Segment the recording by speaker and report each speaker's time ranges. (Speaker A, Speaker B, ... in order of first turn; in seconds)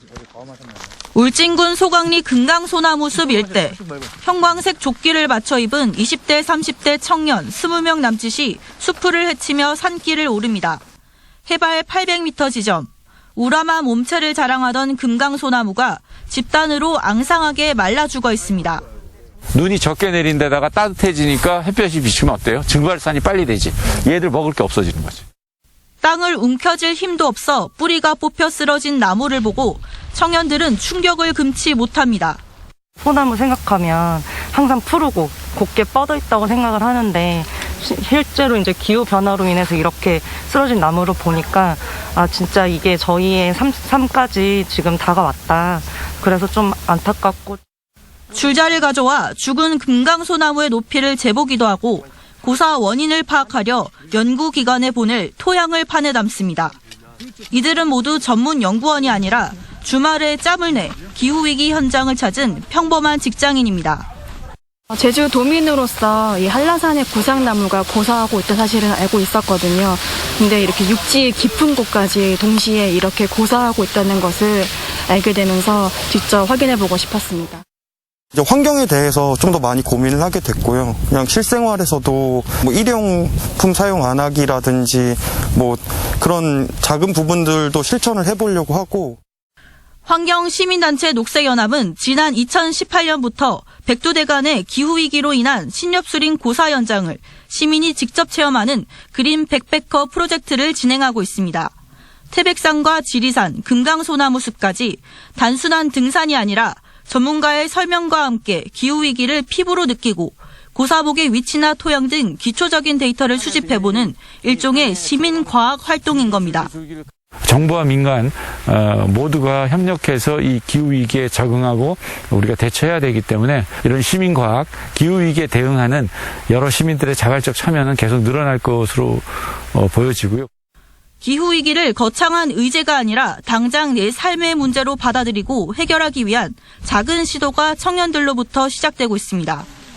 Speaker A: 1.1-10.8, 11.5-18.8, 26.0-32.4, 48.3-56.8, 57.5-64.1, 90.1-101.7, 102.3-116.7, 131.2-139.7
Speaker B: 19.5-25.3, 116.7-130.5
Speaker C: 33.0-47.6
Speaker D: 64.9-77.6
Speaker E: 78.3-89.2